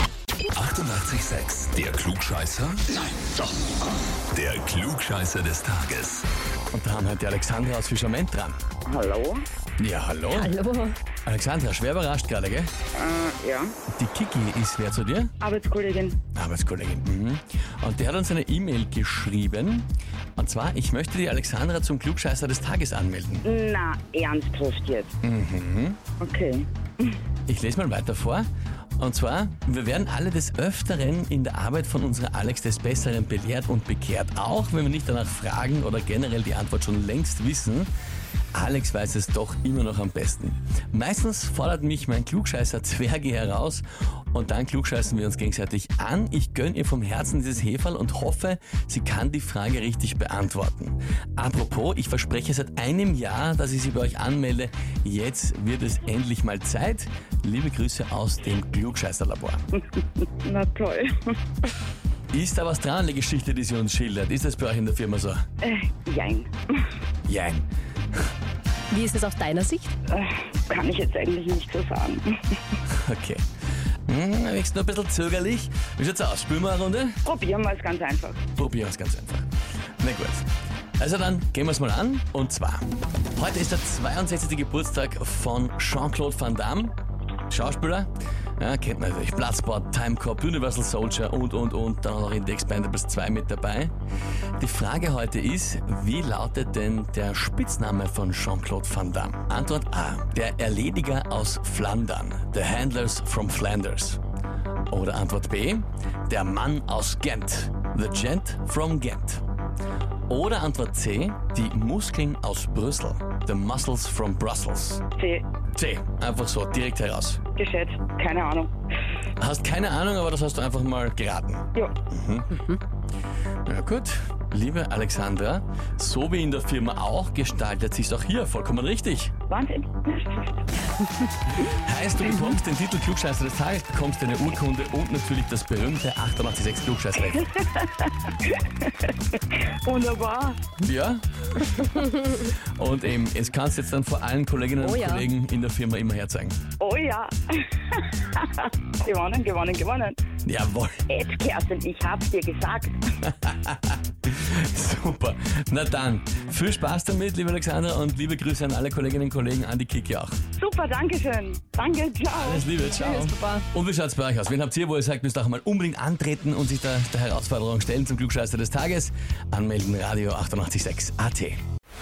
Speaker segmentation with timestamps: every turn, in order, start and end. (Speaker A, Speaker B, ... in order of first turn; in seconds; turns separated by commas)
Speaker A: 0.5-3.0, Speaker A: 4.3-6.2, Speaker B: 6.7-8.6, Speaker C: 8.8-9.4, Speaker B: 9.8-10.6, Speaker D: 10.3-10.9, Speaker B: 11.2-12.7, Speaker C: 12.9-13.7, Speaker B: 13.9-15.3, Speaker C: 15.4-16.2, Speaker B: 16.3-23.4, Speaker C: 23.4-25.1, Speaker B: 25.2-26.0, Speaker C: 26.2-27.2, Speaker B: 27.5-28.5, Speaker B: 29.0-37.9, Speaker B: 38.5-59.6, Speaker C: 60.2-61.4, Speaker B: 62.3-65.4, Speaker C: 65.6-66.8, Speaker B: 67.3-67.6, Speaker D: 68.9-69.9, Speaker C: 70.1-72.4, Speaker B: 72.9-73.4, Speaker B: 74.1-77.2, Speaker C: 77.2-78.4, Speaker B: 78.5-79.5, Speaker B: 80.0-80.5, Speaker B: 81.0-87.0, Speaker B: 87.5-93.9, Speaker B: 94.6-104.2, Speaker B: 104.9-109.4, Speaker B: 110.3-115.0, Speaker C: 115.2-115.5, Speaker B: 115.7-117.5, Speaker C: 117.5-118.7, Speaker B: 119.4-122.8, Speaker B: 123.7-129.4, Speaker C: 129.5-130.7, Speaker B: 131.5-137.5, Speaker C: 137.3-140.7, Speaker B: 140.8-146.6, Speaker D: 144.8-145.2, Speaker C: 146.8-150.2, Speaker B: 150.4-151.0, Speaker C: 151.1-153.1, Speaker B: 153.2-160.3, Speaker C: 160.6-162.6, Speaker B: 162.3-171.6, Speaker D: 162.9-163.6